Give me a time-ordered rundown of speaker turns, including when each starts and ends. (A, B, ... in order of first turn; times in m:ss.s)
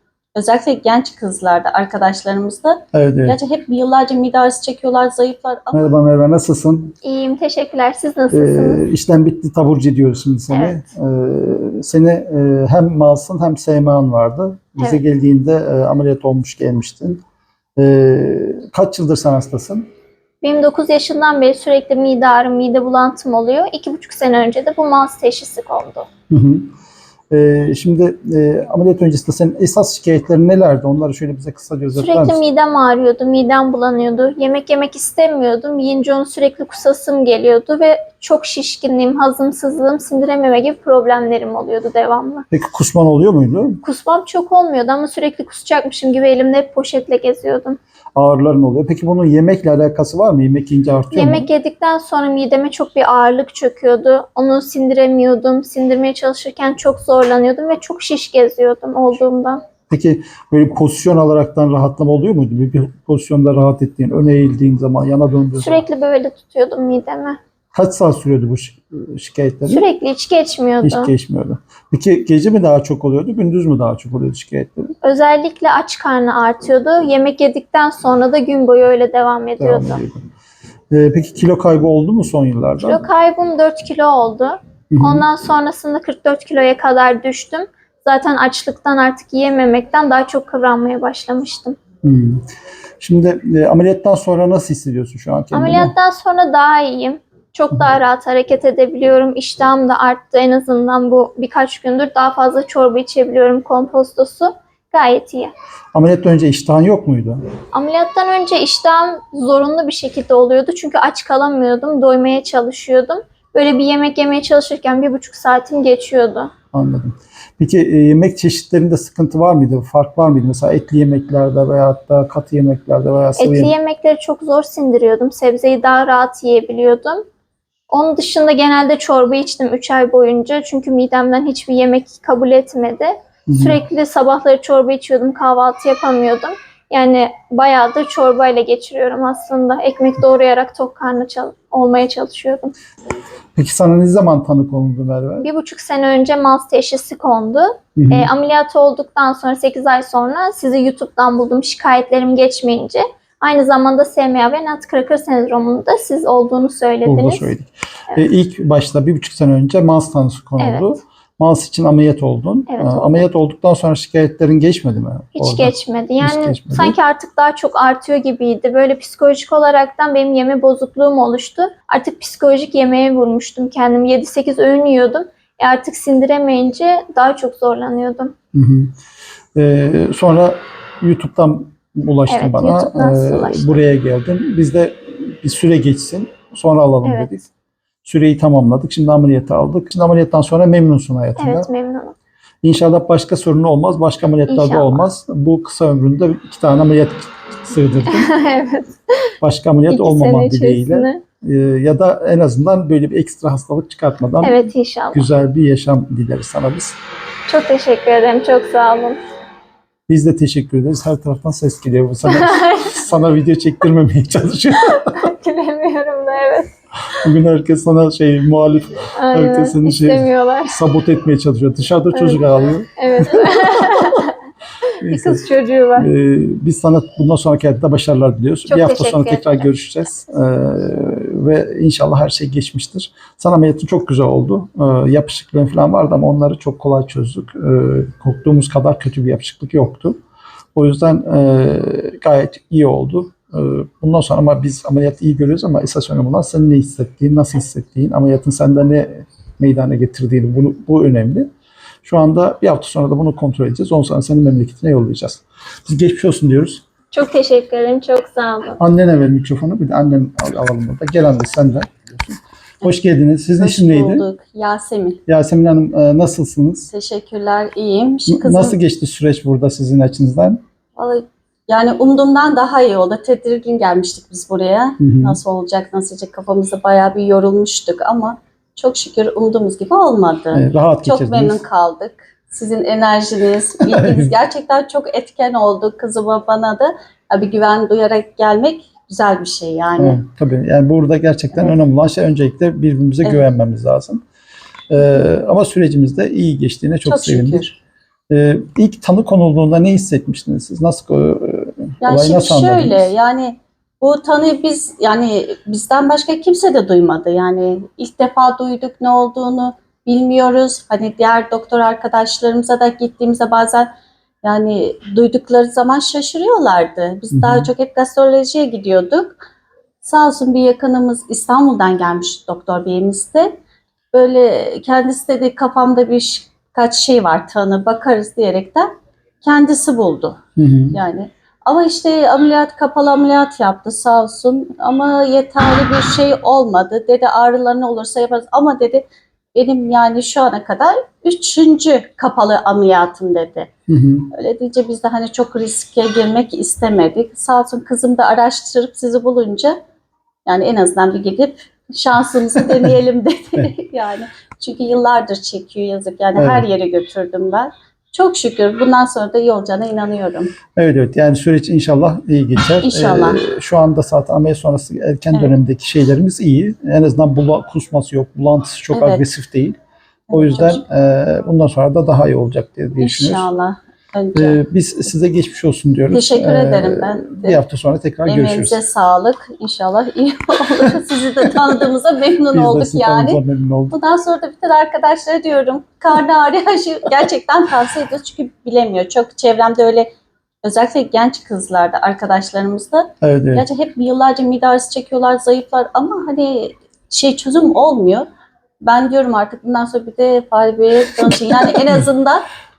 0:00.3-0:06.0 A
0:02.9-0:03.4 B
0:05.7-0:06.9 B
0:07.0-0:08.8 C
0:08.3-0:17.2 B
0:10.5-0:10.8 C
0:17.8-0:19.8 B
0:20.4-0:26.1 C
0:26.3-0:26.7 B
0:27.3-0:32.4 B
0:31.9-0:42.4 C
0:42.5-0:43.8 B
0:43.8-0:47.8 C
0:48.2-0:51.5 B
0:51.1-0:59.6 C
0:59.9-1:05.8 B
1:05.6-1:07.4 C
1:07.7-1:09.9 B
1:09.7-1:11.1 C
1:10.8-1:14.9 B
1:15.0-1:20.0 C
1:19.6-1:20.2 B
1:20.9-1:23.1 B
1:22.8-1:31.8 C
1:24.9-1:25.3 B
1:32.0-1:32.4 B
1:33.0-1:35.9 B
1:35.5-1:45.5 C
1:45.9-1:47.4 B
1:47.7-1:56.5 C
1:56.7-2:03.7 B
2:03.4-2:07.2 C
2:07.9-2:22.7 C
2:13.5-2:13.8 B
2:23.5-2:25.5 B
2:25.4-2:37.5 C
2:28.0-2:28.3 B
2:37.0-2:47.0 B
2:40.6-2:40.9 C
2:42.7-2:43.2 C
2:45.4-2:58.3 C
2:58.5-2:58.9 B
2:59.5-3:07.5 B
3:02.3-3:03.9 C
3:07.0-3:07.3 C
3:08.0-3:11.7 B
3:11.4-3:12.1 C
3:12.6-3:18.3 B
3:14.5-3:15.0 C
3:18.1-3:18.9 C
3:19.4-3:24.6 B
3:19.9-3:21.2 C
3:24.4-3:25.3 C
3:25.1-3:27.0 B
3:27.5-3:29.2 C
3:30.1-3:35.3 B
3:32.3-3:32.9 C
3:34.9-3:36.7 C
3:37.2-3:44.2 B
3:39.2-3:40.8 C
3:42.1-3:44.3 C
3:45.0-4:00.2 B
3:45.0-3:46.1 C
3:48.7-3:49.7 C
4:00.8-4:11.5 B
4:12.0-4:16.8 B
4:17.1-4:18.8 C
4:18.8-4:24.2 B
4:23.6-4:25.2 A
4:25.3-4:26.9 B
4:26.9-4:28.8 A
4:28.3-4:30.6 B
4:31.0-4:50.2 A
4:35.0-4:35.4 B
4:40.5-4:41.6 B
4:43.8-4:44.3 B
4:50.0-4:54.2 B
4:54.9-5:03.1 B
4:57.0-4:57.7 A
5:02.0-5:19.4 A
5:17.3-5:17.7 B
5:20.0-5:23.6 A
5:24.1-5:28.9 A
5:29.4-5:30.4 A
5:30.6-5:31.0 B
5:30.9-5:43.7 A
5:43.9-5:44.3 B
5:44.3-5:49.8 A
5:50.4-6:00.5 A
5:56.4-5:56.7 B
6:00.7-6:09.8 B
6:02.8-6:03.4 A
6:05.3-6:05.6 A
6:08.9-6:09.2 A
6:10.3-6:10.8 A
6:10.3-6:13.5 B
6:13.0-6:14.6 A
6:14.3-6:18.8 B
6:16.1-6:17.6 A
6:18.3-6:30.1 A
6:22.5-6:24.0 B
6:30.6-6:38.3 A
6:33.2-6:33.6 B
6:38.8-6:42.4 A